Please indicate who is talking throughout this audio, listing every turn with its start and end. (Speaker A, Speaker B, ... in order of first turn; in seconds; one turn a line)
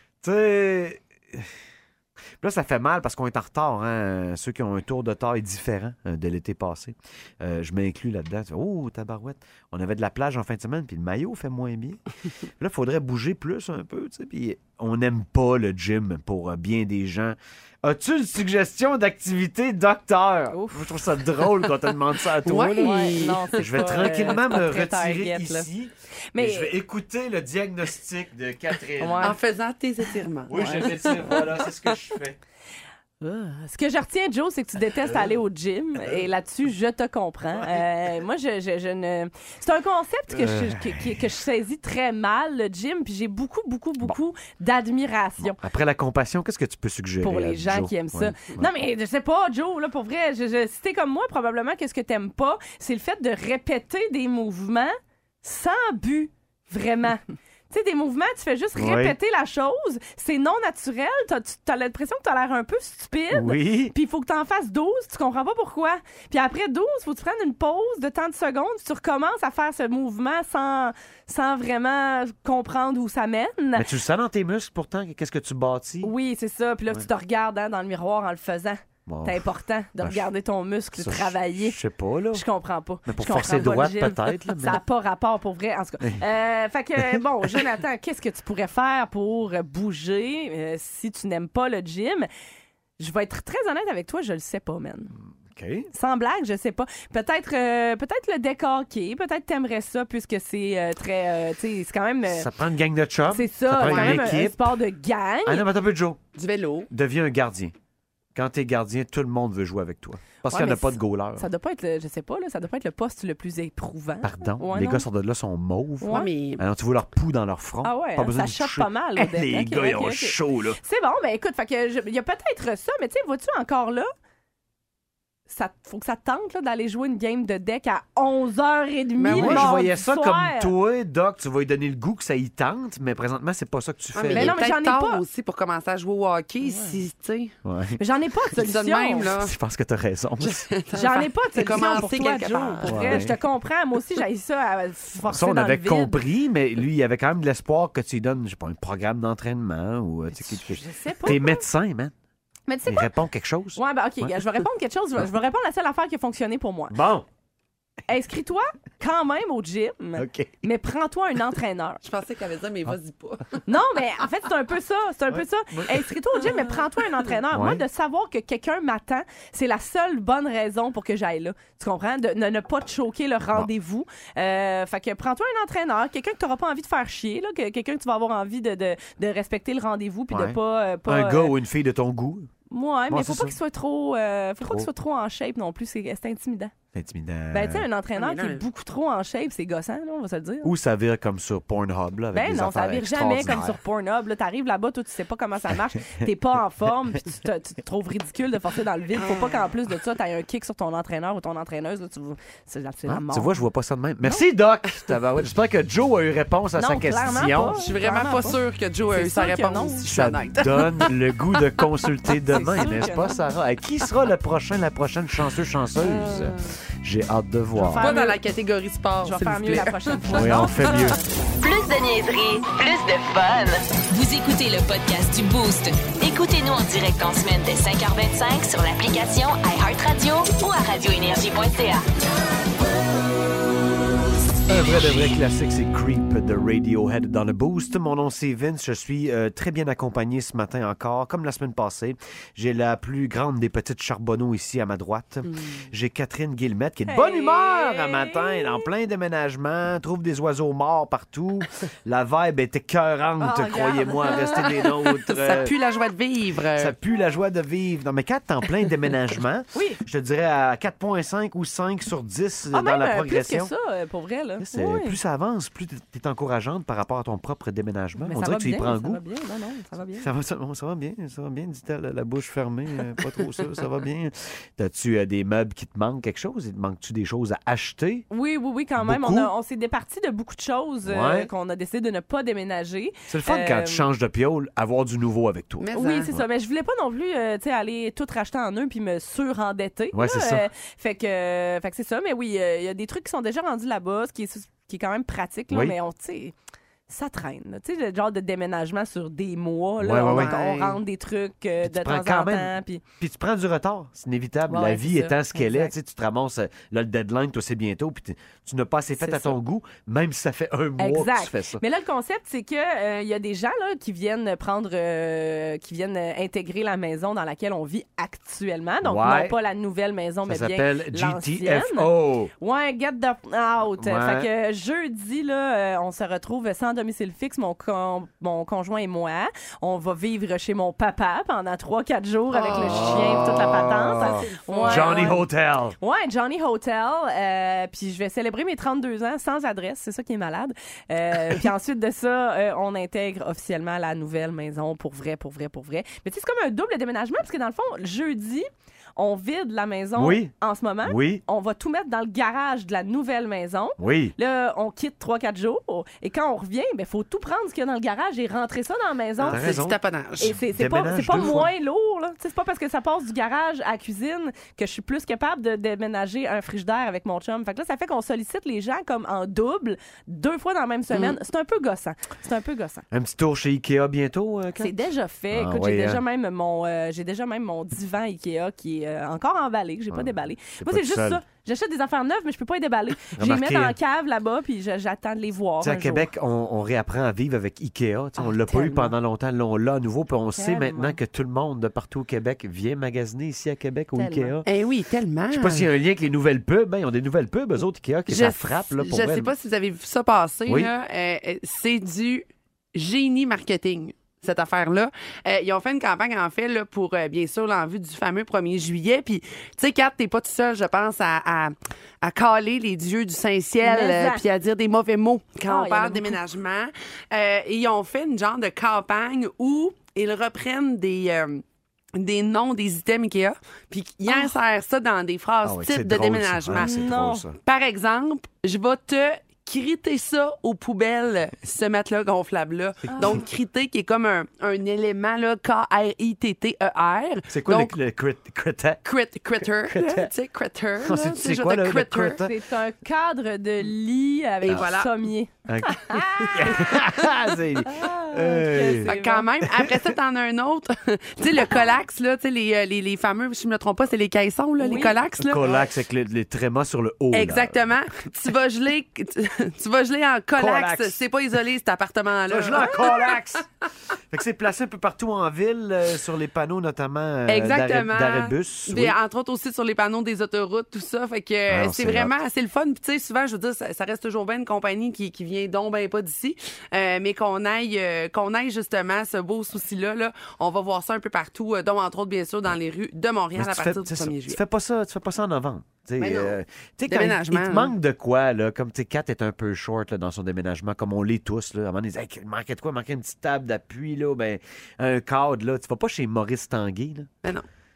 Speaker A: 0.2-1.5
Speaker A: 2.4-12.0
Speaker A: 12.6-29.4
Speaker B: 20.5-20.8
Speaker C: 22.4-24.3
Speaker B: 22.8-25.7
Speaker B: 26.3-26.7
Speaker B: 29.0-29.3
Speaker C: 29.2-31.7
Speaker A: 30.5-32.4
Speaker B: 30.5-31.1
Speaker B: 33.2-45.6
Speaker A: 35.0-35.3
Speaker A: 40.3-41.2
Speaker A: 45.4-48.7
Speaker B: 47.2-73.8
Speaker A: 58.8-59.2
Speaker A: 63.3-63.9
Speaker A: 73.7-76.1
Speaker B: 76.0-81.8
Speaker A: 79.0-79.4
Speaker A: 80.0-80.2
Speaker A: 81.0-82.4
Speaker B: 82.3-92.3
Speaker A: 83.0-84.8
Speaker B: 93.0-95.1
Speaker A: 95.4-95.9
Speaker B: 95.9-102.5
Speaker A: 102.2-104.8
Speaker B: 103.3-105.6
Speaker C: 103.9-104.2
Speaker A: 105.4-106.2
Speaker C: 106.3-106.9
Speaker A: 106.9-107.7
Speaker A: 108.3-111.5
Speaker B: 110.5-115.0
Speaker A: 114.2-120.8
Speaker B: 116.0-116.3
Speaker C: 116.0-116.6
Speaker B: 117.8-124.1
Speaker B: 125.5-130.7
Speaker C: 129.2-129.7
Speaker A: 129.3-134.6
Speaker C: 134.2-137.5
Speaker B: 134.3-135.2
Speaker B: 136.7-136.9
Speaker A: 137.6-138.0
Speaker B: 138.0-139.3
Speaker C: 138.6-139.5
Speaker A: 139.2-140.7
Speaker C: 140.4-143.2
Speaker B: 140.9-146.2
Speaker A: 142.8-143.3
Speaker A: 145.2-152.1
Speaker B: 150.4-151.7
Speaker B: 152.7-153.1
Speaker A: 152.9-154.3
Speaker B: 153.7-157.0
Speaker A: 156.9-157.2
Speaker B: 158.1-162.0
Speaker A: 160.2-160.5
Speaker C: 162.0-163.6
Speaker B: 163.7-181.5
Speaker A: 165.3-166.0
Speaker C: 166.4-166.7
Speaker A: 167.5-167.8
Speaker A: 180.3-182.5
Speaker B: 182.7-186.7
Speaker A: 183.1-183.6
Speaker A: 184.6-184.9
Speaker A: 186.9-187.8
Speaker B: 187.5-190.7
Speaker C: 188.2-188.6
Speaker A: 190.6-193.8
Speaker B: 192.3-203.6
Speaker C: 199.2-199.7
Speaker A: 203.1-207.8
Speaker B: 206.8-208.6
Speaker C: 207.8-211.1
Speaker B: 209.1-210.1
Speaker A: 210.1-218.1
Speaker B: 212.4-213.4
Speaker C: 216.0-216.6
Speaker B: 217.8-218.4
Speaker C: 218.0-220.6
Speaker B: 219.2-221.3
Speaker A: 220.3-221.2
Speaker D: 221.6-232.0
Speaker A: 234.7-255.7
Speaker B: 247.1-248.9
Speaker B: 253.4-254.9
Speaker C: 255.3-256.9
Speaker A: 256.8-263.7
Speaker B: 259.7-260.0
Speaker B: 262.7-265.2
Speaker A: 264.6-269.2
Speaker B: 268.2-270.2
Speaker A: 270.2-278.2
Speaker B: 278.3-284.1
Speaker A: 279.0-279.5
Speaker A: 281.0-281.5
Speaker A: 283.3-286.5
Speaker C: 285.8-286.3
Speaker B: 285.9-296.5
Speaker A: 290.1-290.7
Speaker A: 295.7-295.9
Speaker B: 297.1-303.0
Speaker A: 300.0-300.5
Speaker C: 300.3-301.0
Speaker A: 301.8-311.8
Speaker B: 304.7-305.9
Speaker B: 309.2-309.5
Speaker B: 311.0-335.4
Speaker A: 319.0-319.6
Speaker A: 320.4-322.5
Speaker A: 324.0-324.5
Speaker A: 332.6-335.9
Speaker C: 332.9-333.4
Speaker C: 334.1-335.4
Speaker B: 336.0-359.8
Speaker A: 350.1-350.5
Speaker A: 351.0-351.4
Speaker A: 354.0-354.3
Speaker C: 359.4-360.6
Speaker A: 359.5-361.7
Speaker B: 360.4-373.0
Speaker A: 373.1-374.9
Speaker B: 374.8-386.3
Speaker A: 375.5-376.2
Speaker A: 380.1-381.4
Speaker A: 383.3-383.9
Speaker A: 385.8-394.6
Speaker B: 388.4-389.1
Speaker B: 390.6-391.1
Speaker B: 394.1-394.6
Speaker C: 394.6-395.9
Speaker A: 395.5-399.5
Speaker C: 398.3-421.6
Speaker B: 413.8-414.4
Speaker B: 415.7-416.4
Speaker C: 422.1-426.9
Speaker A: 425.6-427.6
Speaker B: 426.8-427.4
Speaker C: 427.6-437.9
Speaker B: 433.1-433.4
Speaker A: 437.5-439.1
Speaker C: 439.0-442.4
Speaker A: 439.8-440.3
Speaker A: 441.0-442.5
Speaker B: 442.4-446.8
Speaker C: 444.6-445.1
Speaker A: 445.7-449.1
Speaker C: 446.4-446.9
Speaker B: 447.8-449.5
Speaker C: 449.0-455.8
Speaker A: 449.7-450.0
Speaker B: 454.8-455.2
Speaker A: 455.4-457.9
Speaker C: 457.3-463.6
Speaker A: 460.5-461.2
Speaker A: 462.5-463.6
Speaker A: 464.3-469.2
Speaker C: 467.5-484.6
Speaker A: 471.7-472.4
Speaker A: 483.6-497.3
Speaker C: 486.2-487.9